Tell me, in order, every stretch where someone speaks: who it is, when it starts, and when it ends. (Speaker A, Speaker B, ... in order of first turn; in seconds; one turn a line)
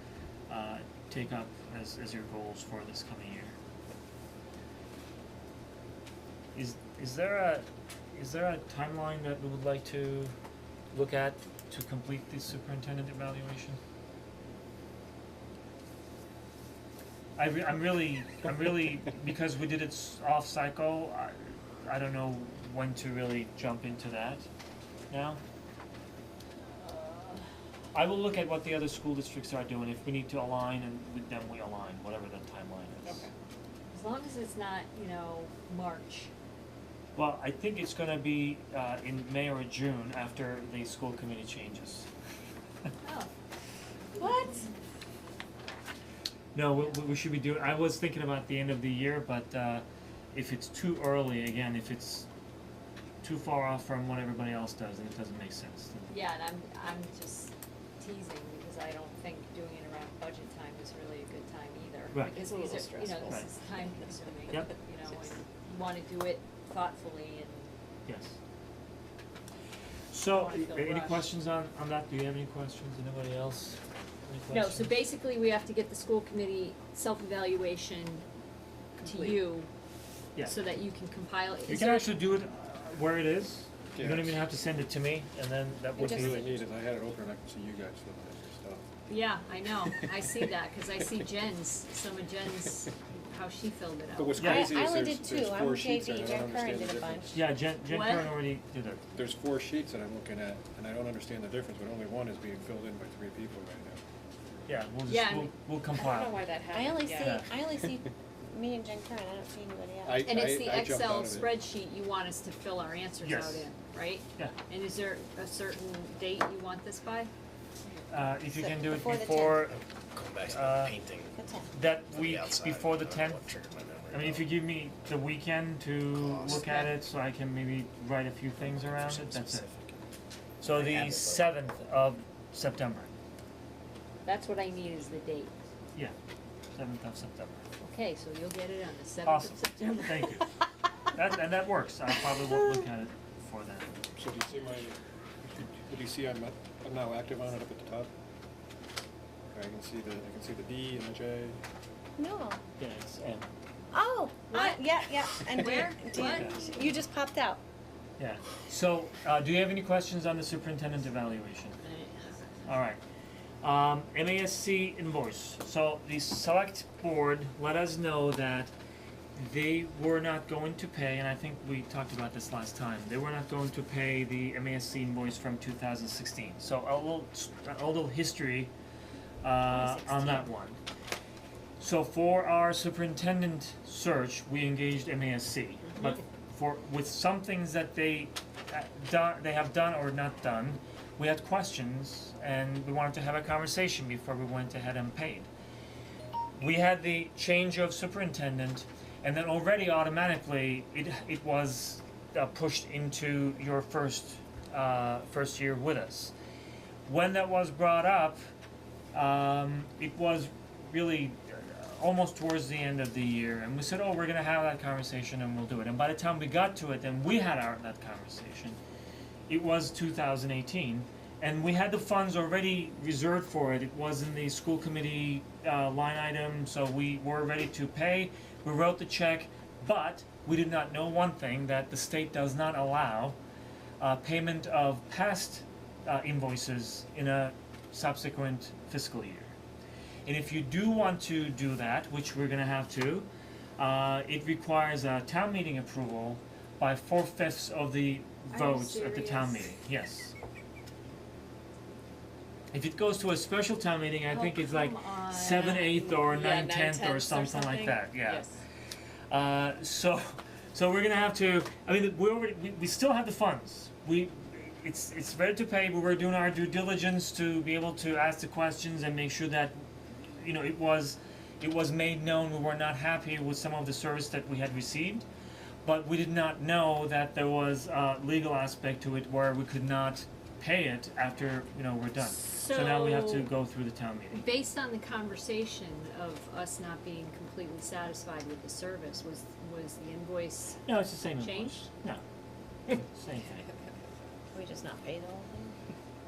Speaker A: 0.5-3.5
Speaker A: 6.5-10.3
Speaker A: 10.9-13.8
Speaker A: 17.4-24.5
Speaker A: 25.1-25.4
Speaker B: 26.8-27.4
Speaker A: 27.9-33.2
Speaker B: 33.9-36.3
Speaker A: 37.1-42.1
Speaker B: 43.0-43.3
Speaker B: 44.1-44.7
Speaker A: 46.5-52.3
Speaker A: 53.2-56.1
Speaker B: 56.1-67.7
Speaker A: 62.1-62.4
Speaker C: 62.4-63.4
Speaker A: 68.0-68.4
Speaker A: 70.1-75.0
Speaker B: 70.3-71.3
Speaker B: 74.5-78.2
Speaker B: 79.0-79.7
Speaker B: 80.4-82.1
Speaker A: 81.7-86.6
Speaker D: 83.9-84.4
Speaker E: 86.0-86.3
Speaker D: 86.0-88.8
Speaker B: 89.1-94.7
Speaker D: 94.1-97.4
Speaker E: 94.4-97.3
Speaker A: 94.4-94.7
Speaker A: 97.3-99.0
Speaker B: 97.9-98.4
Speaker D: 99.1-104.0
Speaker A: 104.7-106.4
Speaker B: 105.1-105.5
Speaker C: 106.0-107.4
Speaker E: 106.7-110.3
Speaker A: 107.2-107.5
Speaker D: 110.0-111.5
Speaker B: 110.2-117.3
Speaker A: 113.2-113.7
Speaker A: 118.1-119.8
Speaker E: 118.5-119.7
Speaker F: 119.6-121.4
Speaker A: 120.4-121.0
Speaker E: 121.3-121.7
Speaker A: 121.7-123.5
Speaker F: 122.0-124.6
Speaker A: 124.1-129.7
Speaker F: 126.1-126.9
Speaker F: 128.6-130.0
Speaker A: 130.6-133.1
Speaker F: 130.6-131.7
Speaker B: 134.2-135.5
Speaker A: 136.7-137.6
Speaker B: 137.8-140.5
Speaker A: 139.2-140.5
Speaker A: 141.1-143.9
Speaker D: 144.2-148.1
Speaker D: 149.5-151.6
Speaker E: 152.2-152.6
Speaker A: 152.8-153.5
Speaker E: 153.9-157.6
Speaker B: 154.5-156.8
Speaker A: 156.2-156.6
Speaker A: 158.2-161.8
Speaker B: 161.9-162.3
Speaker A: 162.6-163.0
Speaker A: 163.6-168.7
Speaker A: 169.3-178.7
Speaker A: 179.4-180.8
Speaker E: 179.7-180.5
Speaker A: 181.8-195.5
Speaker A: 196.6-206.3
Speaker A: 207.1-208.4
Speaker A: 209.1-218.8
Speaker A: 219.5-233.4
Speaker A: 234.0-239.6
Speaker A: 240.2-250.3
Speaker B: 248.5-249.7
Speaker A: 252.7-258.5
Speaker B: 254.3-256.3
Speaker C: 256.2-258.5
Speaker A: 259.3-275.3
Speaker A: 275.8-284.4
Speaker B: 282.2-283.5
Speaker B: 284.3-291.9
Speaker A: 290.8-292.2
Speaker A: 292.9-293.6
Speaker E: 294.5-295.8